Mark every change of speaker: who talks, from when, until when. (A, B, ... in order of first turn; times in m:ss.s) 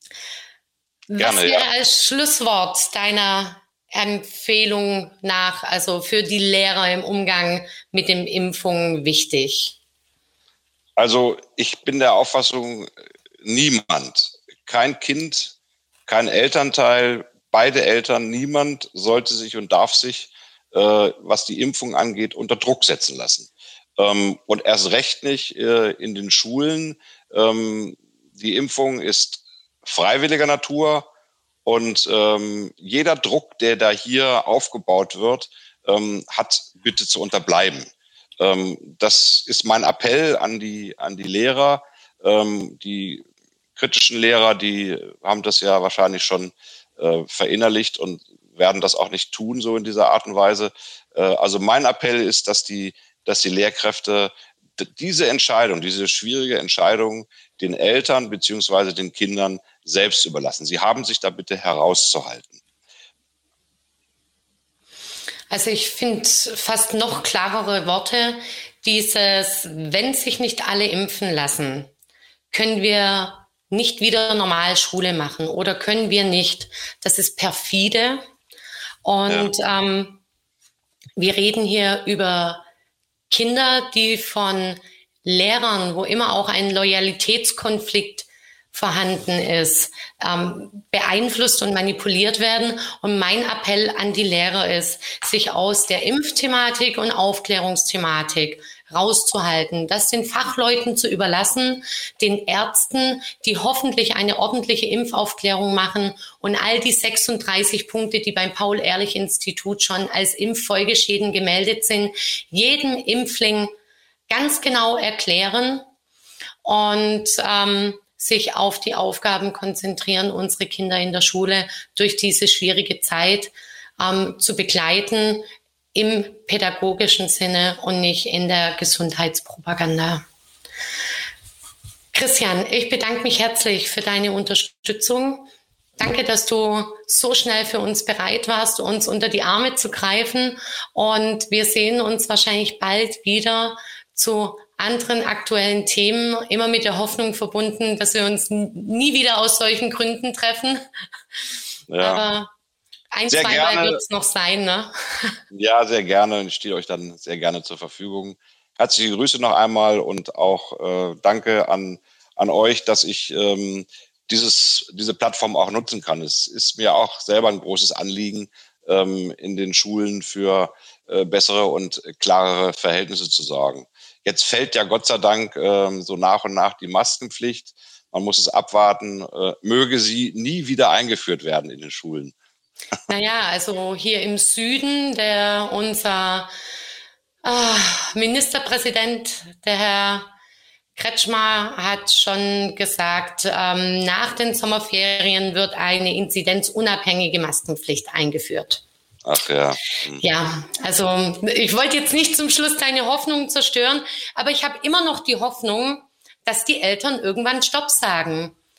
0:01.1-0:09.8 A
0:01.2-0:01.7 B
0:11.0-0:12.9 B
0:13.4-0:15.5 B
0:16.1-0:31.1 B
0:31.6-0:37.9 B
0:38.4-0:43.2 B
0:43.8-1:02.6 B
1:05.5-1:11.9 A
1:12.5-1:18.2 A
1:19.0-1:20.2 A
1:21.2-1:22.6 A
1:23.3-1:53.7 A
1:54.3-1:55.8 A
1:56.6-2:10.2 A
2:12.1-2:30.8 A
2:31.9-2:32.2 B
2:32.0-2:32.5 A
2:33.1-2:35.4 A
2:33.3-2:34.0 B
2:35.5-3:02.3 B
3:03.1-3:06.5 A
3:07.4-3:10.3 A
3:11.0-3:18.8 A
3:19.2-3:20.2 B
3:20.2-3:28.5 A